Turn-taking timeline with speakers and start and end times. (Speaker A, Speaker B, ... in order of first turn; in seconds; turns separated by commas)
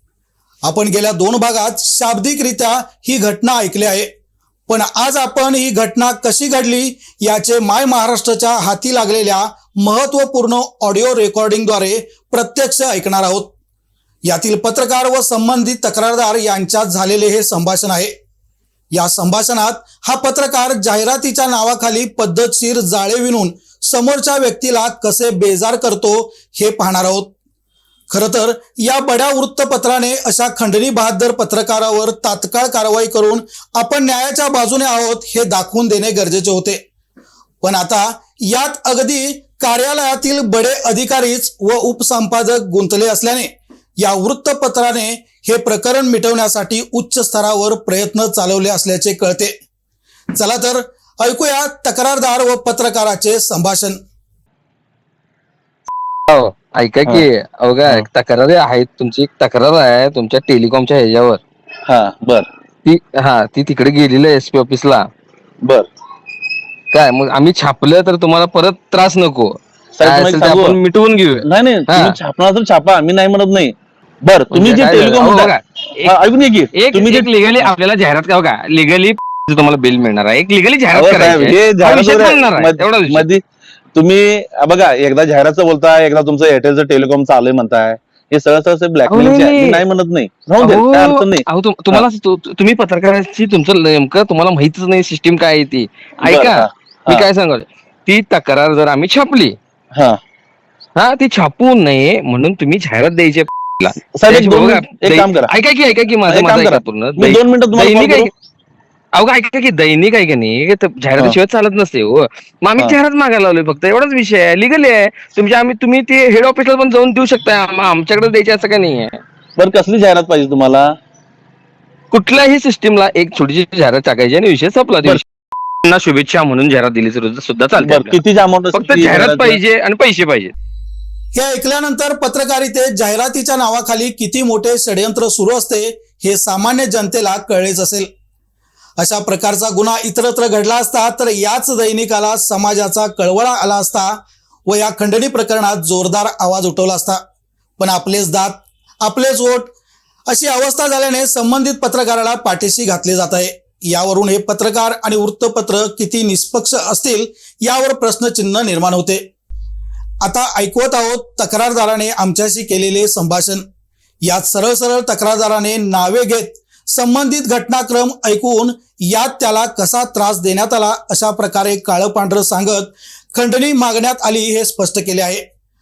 Speaker A: 0.6-4.1, Speaker A: 4.7-13.5, Speaker A: 14.3-18.1, Speaker A: 18.9-27.3, Speaker A: 28.1-36.8, Speaker A: 37.6-43.5, Speaker A: 44.0-49.5, Speaker A: 50.4-54.0, Speaker B: 56.3-61.4, Speaker C: 61.8-62.5, Speaker B: 62.8-65.1, Speaker C: 65.6-65.9, Speaker B: 66.9-72.2, Speaker C: 70.0-70.8, Speaker C: 71.4-75.5, Speaker B: 74.5-76.2, Speaker C: 76.0-77.7, Speaker B: 76.7-83.3, Speaker C: 80.9-83.4, Speaker C: 83.9-92.0, Speaker B: 89.1-89.8, Speaker B: 90.6-99.6, Speaker C: 96.2-97.3, Speaker B: 101.0-108.3, Speaker C: 104.2-105.5, Speaker C: 106.3-108.3, Speaker B: 109.1-119.2, Speaker C: 119.6-120.9, Speaker B: 122.1-125.2, Speaker B: 125.8-128.2, Speaker C: 127.8-129.6, Speaker B: 128.7-130.5, Speaker A: 131.3-138.1, Speaker A: 139.0-147.2, Speaker A: 147.8-149.7, Speaker A: 150.3-159.2, Speaker A: 160.2-163.6, Speaker A: 164.2-175.4